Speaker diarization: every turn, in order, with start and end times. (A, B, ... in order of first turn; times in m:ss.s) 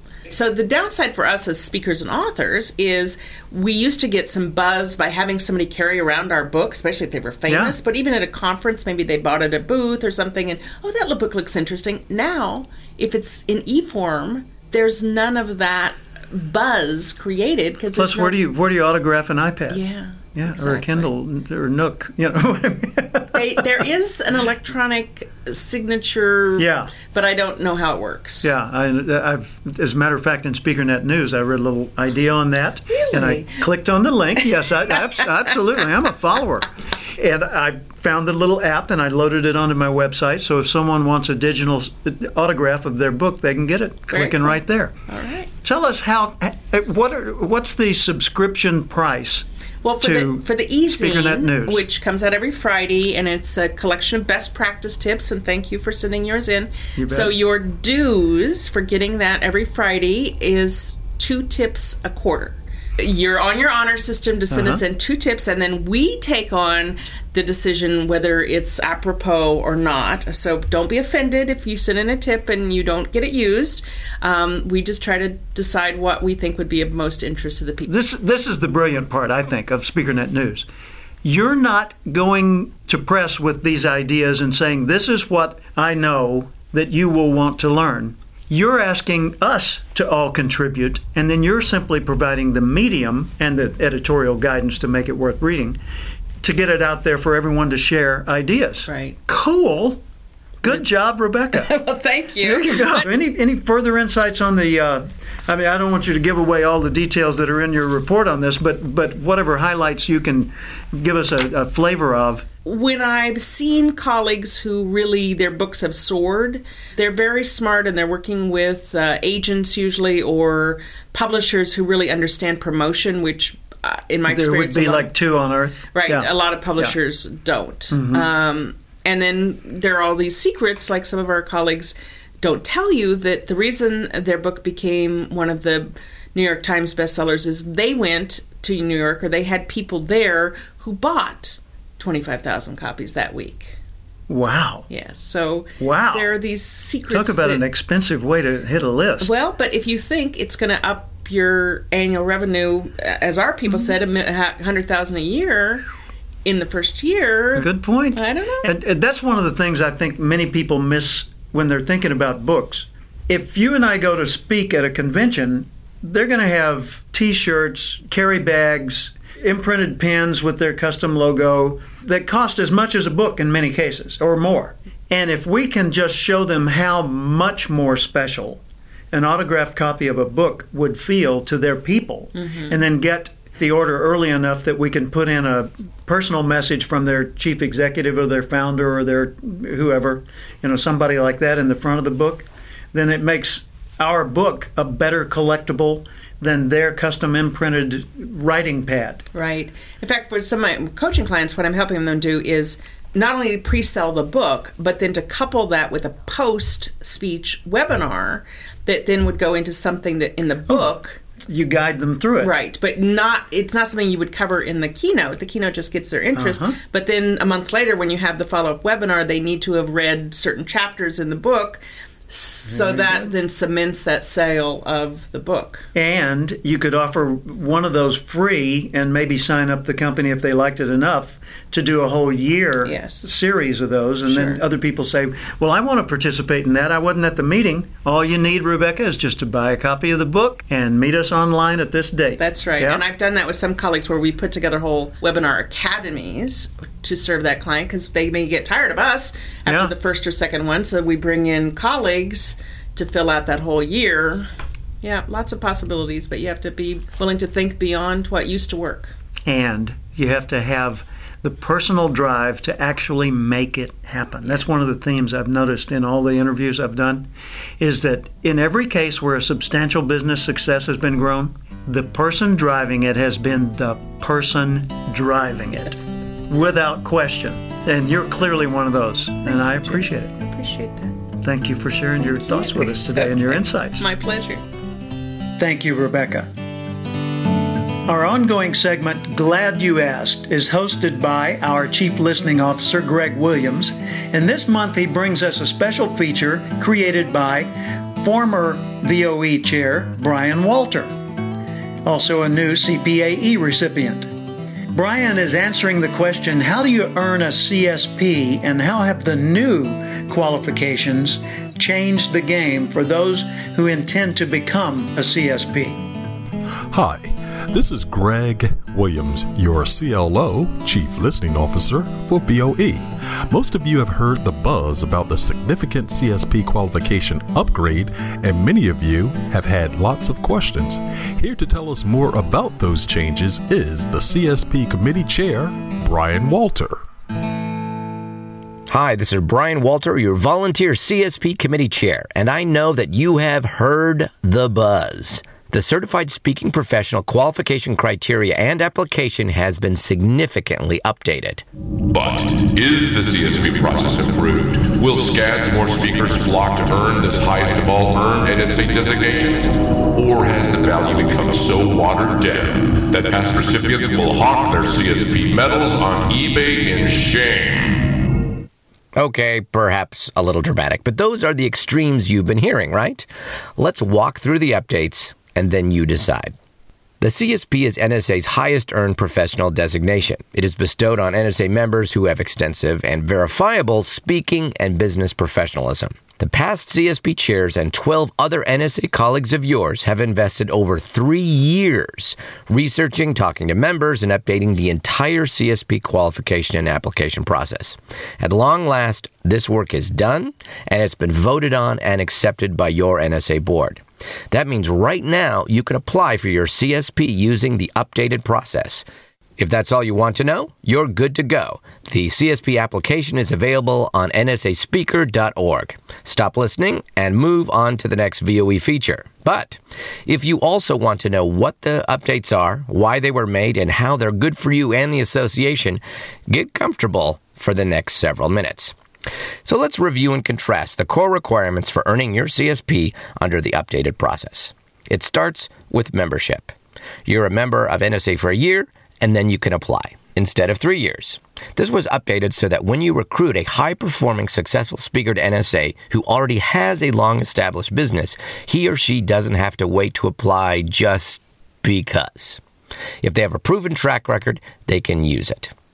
0:00.3-0:18.4 A
0:07.5-0:07.8 B
0:17.9-0:19.8 B
0:19.7-0:21.1 A
0:20.3-0:23.5 B
0:23.3-0:28.5 A
0:26.6-0:26.9 B
0:28.4-0:45.0 B
0:32.9-0:33.6 A
0:44.1-0:45.5 A
0:45.6-0:49.4 B
0:49.8-1:17.9 A
0:50.0-0:51.8 B
0:57.0-0:57.3 B
1:04.5-1:04.8 B
1:17.8-1:20.7 B
1:21.2-1:35.8 B
1:36.4-1:40.0 B
1:38.8-1:39.2 A
1:40.6-1:41.7 B
1:41.5-1:43.1 A
1:42.4-1:52.5 B
1:52.6-2:05.1 A
2:04.2-2:07.0 B
2:05.9-2:23.8 A
2:07.9-2:08.3 B
2:24.3-2:24.9 B
2:24.9-2:27.6 A
2:25.8-2:26.3 B
2:27.1-2:29.3 B
2:29.2-2:35.8 A
2:36.4-2:38.7 A
2:37.5-2:58.6 B
2:59.1-3:19.2 B
3:02.4-3:02.8 A
3:19.3-3:31.2 A
3:30.7-3:32.5 B
3:32.4-3:45.9 A
3:36.4-3:36.8 B
3:42.7-3:43.3 B
3:45.9-4:03.0 B
3:52.8-3:53.3 A
3:54.3-3:54.6 A
4:02.4-4:14.5 A
4:09.6-4:09.9 B
4:15.0-4:19.2 A
4:19.4-4:40.3 B
4:39.8-4:41.1 A
4:41.4-4:44.0 B
4:42.6-4:44.6 A
4:45.6-4:46.5 B
4:48.1-5:01.1 B
5:02.0-5:04.3 B
5:04.9-5:16.0 B
5:16.9-5:37.0 C
5:38.9-5:51.6 D
5:52.1-6:08.1 E
6:09.2-6:16.5 D
6:17.2-6:49.0 D
6:49.6-7:08.9 D
7:09.6-7:16.7 D
7:17.2-7:32.6 D
7:33.2-7:35.7 D